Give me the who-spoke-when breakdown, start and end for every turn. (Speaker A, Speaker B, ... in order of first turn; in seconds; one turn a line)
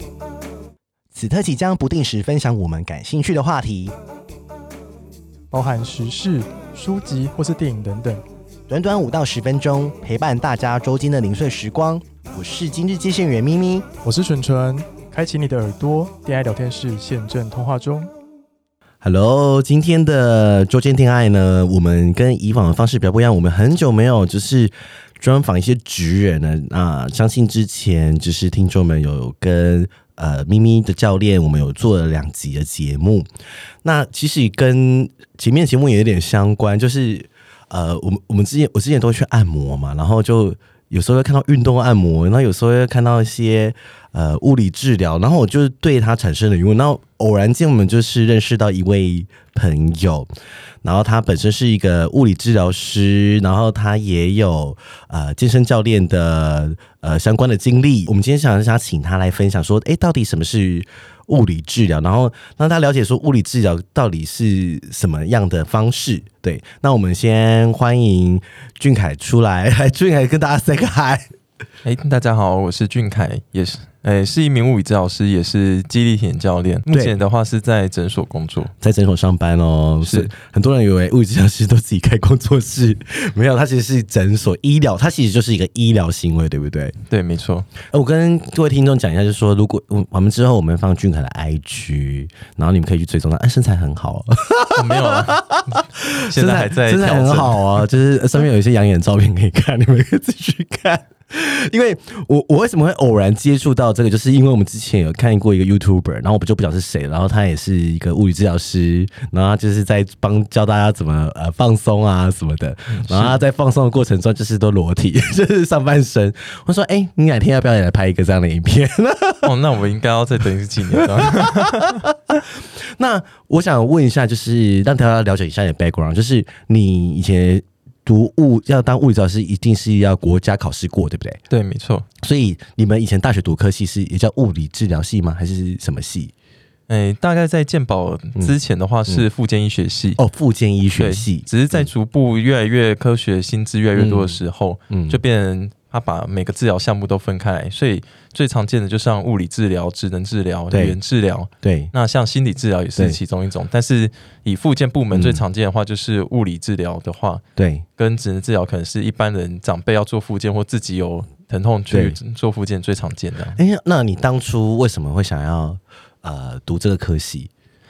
Speaker A: 1.1-3.9
Speaker B: 5.5-8.2
Speaker A: 8.7-13.8
Speaker B: 14.0-18.1
Speaker A: 19.0-33.3
Speaker A: 33.8-50.3
Speaker A: 50.8-71.3
Speaker C: 71.8-78.7
Speaker A: 76.9-77.2
Speaker A: 78.8-87.0
Speaker C: 80.0-80.3
Speaker C: 87.1-87.7
Speaker A: 87.8-119.5
Speaker C: 94.7-97.8
Speaker C: 112.9-113.4
Speaker C: 119.4-122.0
Speaker A: 121.0-122.1
Speaker A: 122.9-131.4
Speaker C: 131.5-132.0
Speaker A: 132.2-136.3
Speaker C: 136.9-140.2
Speaker A: 140.2-141.9
Speaker C: 141.0-157.4
Speaker A: 143.9-145.2
Speaker A: 150.7-151.0
Speaker A: 151.6-151.9
Speaker A: 155.1-155.4
Speaker A: 157.6-157.8
Speaker C: 158.0-163.6
Speaker A: 161.9-162.2
Speaker A: 163.6-167.5